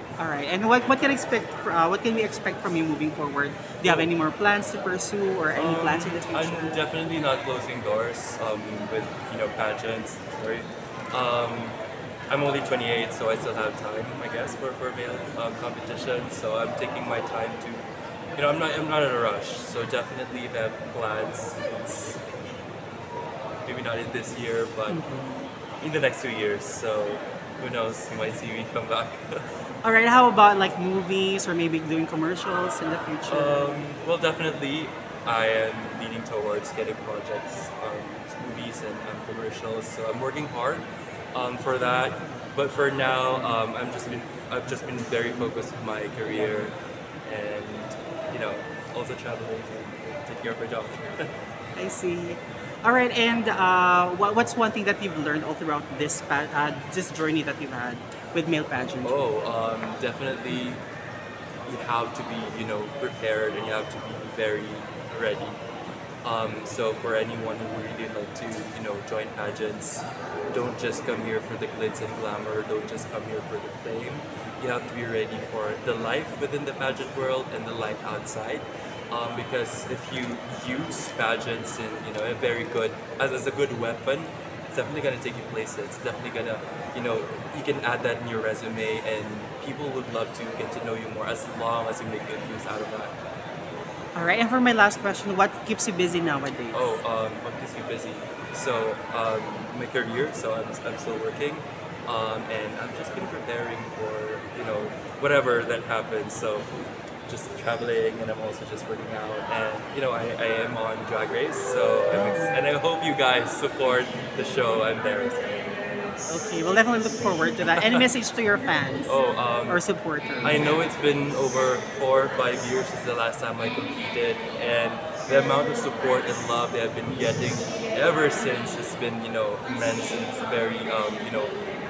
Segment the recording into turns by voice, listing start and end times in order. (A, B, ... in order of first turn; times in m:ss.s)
0:00.2-0:06.8 A
0:03.8-0:04.1 B
0:05.5-0:11.8 B
0:12.3-0:22.2 B
0:23.6-0:25.0 B
0:24.9-0:25.4 A
0:25.8-0:29.4 B
0:29.8-0:33.6 A
0:33.3-0:46.7 B
0:47.2-0:51.3 B
0:51.8-0:59.2 A
0:59.0-1:00.8 B
1:01.6-1:05.6 B
1:06.2-1:33.1 B
1:34.2-1:37.0 A
1:36.7-1:46.7 B
1:47.3-1:55.7 B
1:52.1-1:52.6 A
1:56.3-1:59.2 A
1:57.8-1:58.0 B
1:59.1-1:59.8 B
1:59.7-2:00.8 A
2:00.4-2:11.5 B